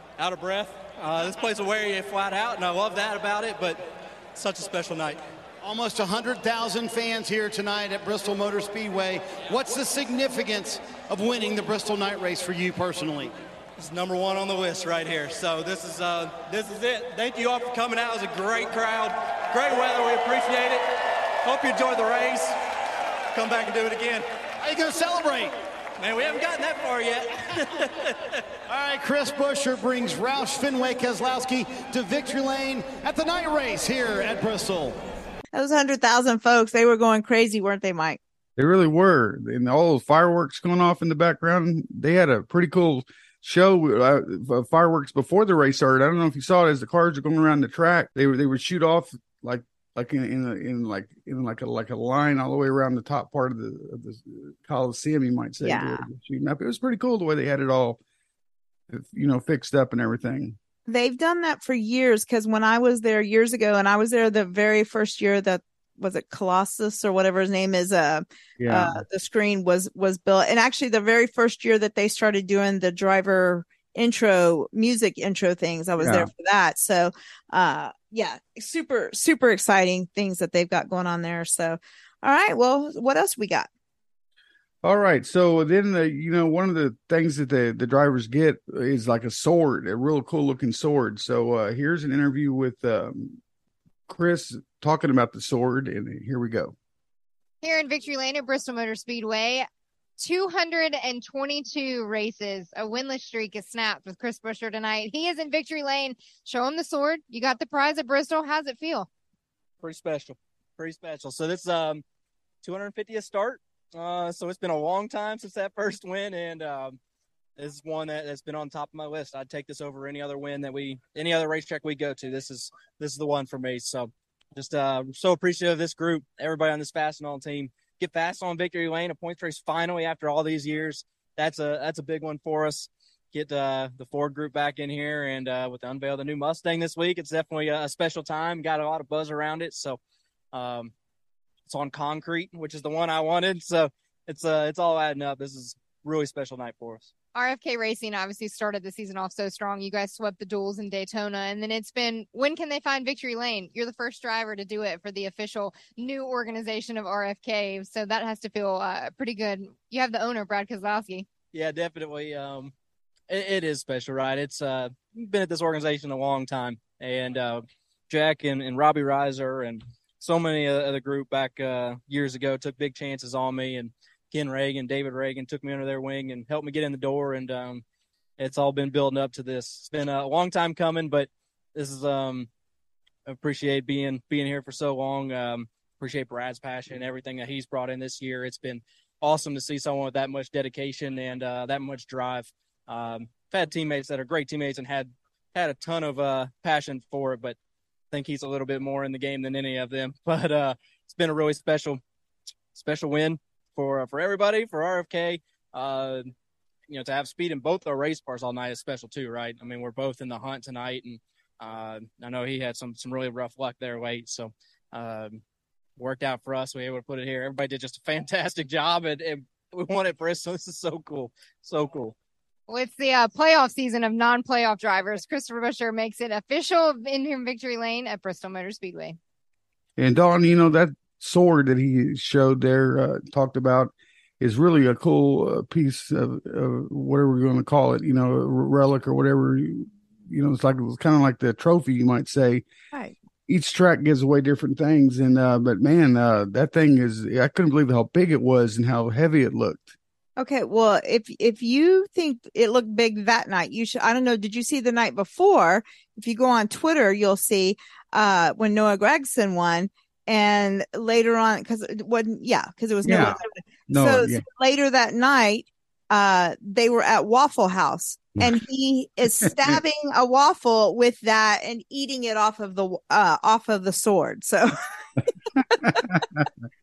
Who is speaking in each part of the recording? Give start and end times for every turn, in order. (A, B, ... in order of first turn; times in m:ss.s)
0:00.2-0:05.2 A
0:05.6-0:13.3 B
0:13.8-0:20.9 A
0:21.4-0:22.6 A
0:23.3-0:24.2 A
0:24.6-0:25.5 B
0:26.0-0:28.4 A
0:28.7-0:35.0 B
0:35.5-0:38.2 C
0:38.6-0:58.0 D
0:55.6-0:56.0 C
0:58.9-1:00.6 D
1:00.9-1:23.7 C
1:08.6-1:09.0 D
1:16.0-1:16.3 D
1:24.8-1:33.4 D
1:34.1-1:36.8 D
1:37.6-1:39.7 E
1:40.2-1:49.1 E
1:49.8-1:52.0 A
1:52.6-1:57.0 A
1:57.6-2:20.0 A
2:20.5-2:20.9 A
2:21.6-2:27.1 A
2:27.3-2:41.3 E
2:41.5-2:42.7 A
2:43.3-2:57.8 A
2:58.4-3:02.5 A
3:03.3-3:17.6 A
3:18.1-3:22.0 A
3:22.8-3:26.3 A
3:26.9-3:35.4 A
3:36.0-3:42.1 A
3:42.7-3:49.2 E
3:50.0-4:02.6 D
4:03.5-4:09.9 D
4:10.4-4:34.7 C
4:23.0-4:23.4 D
4:23.9-4:24.4 D
4:29.4-4:29.8 D
4:35.6-4:36.5 D